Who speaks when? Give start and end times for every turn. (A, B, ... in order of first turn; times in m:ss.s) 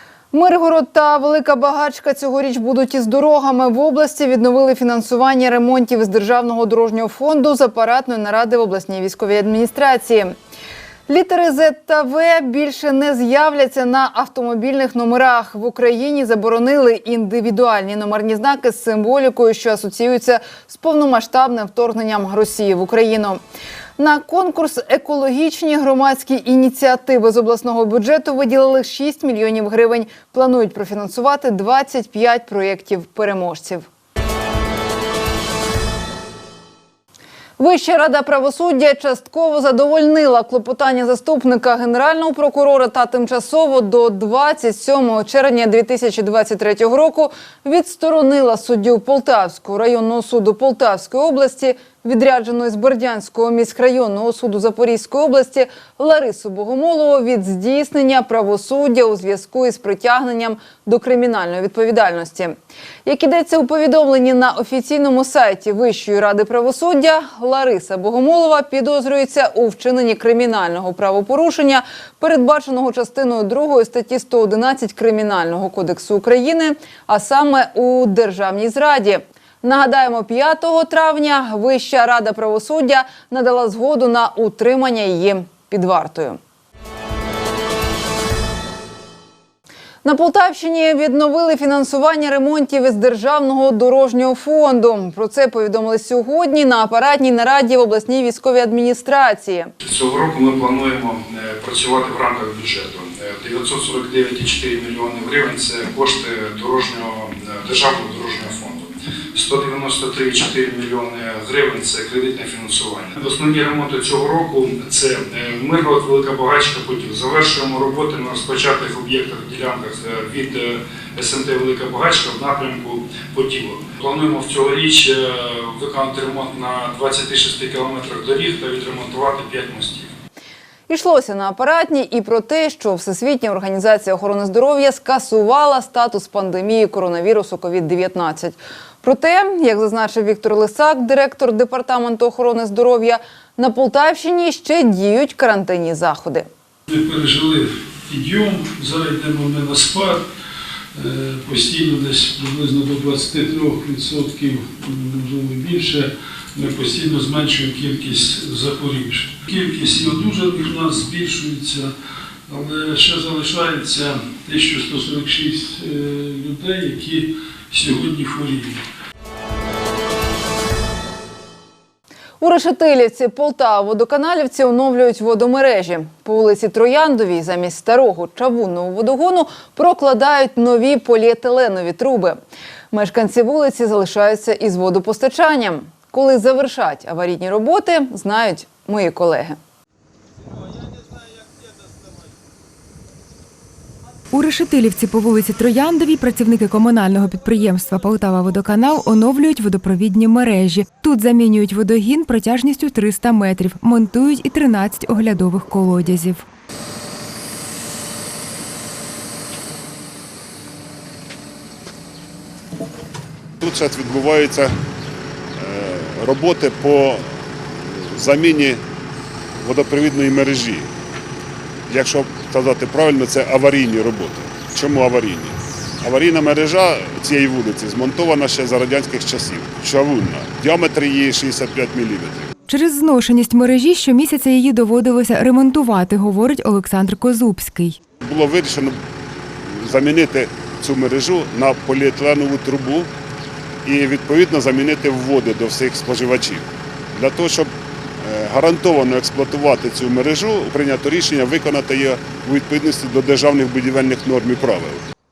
0:00.3-0:10.3 A
0:11.1-0:23.4 A
0:24.0-0:33.8 A
0:37.6-1:26.4 A
1:30.0-1:39.7 A
1:39.8-1:48.8 B
1:49.4-2:10.0 B
2:10.9-2:26.5 A
2:26.9-2:30.1 B
2:27.1-2:27.4 C
2:29.0-2:29.9 C
2:31.4-2:36.0 C
2:31.5-2:32.4 B
2:35.6-2:35.9 B
2:36.6-2:38.3 B
2:36.6-2:41.8 C
2:38.9-2:40.2 B
2:40.8-2:41.8 B
2:42.5-2:47.2 C
2:43.0-2:44.0 B
2:47.8-2:48.7 C
2:52.4-3:02.4 A
3:02.9-3:09.6 A
3:14.3-3:26.4 D
3:33.6-3:34.7 E
3:35.6-3:37.2 E
3:38.2-3:38.8 E
3:39.6-3:40.9 E
3:41.9-3:52.4 E
3:52.7-3:58.0 D
3:58.2-3:59.0 E
3:59.8-4:03.1 E
4:03.8-4:06.6 E
4:07.2-4:07.7 E
4:08.2-4:15.0 E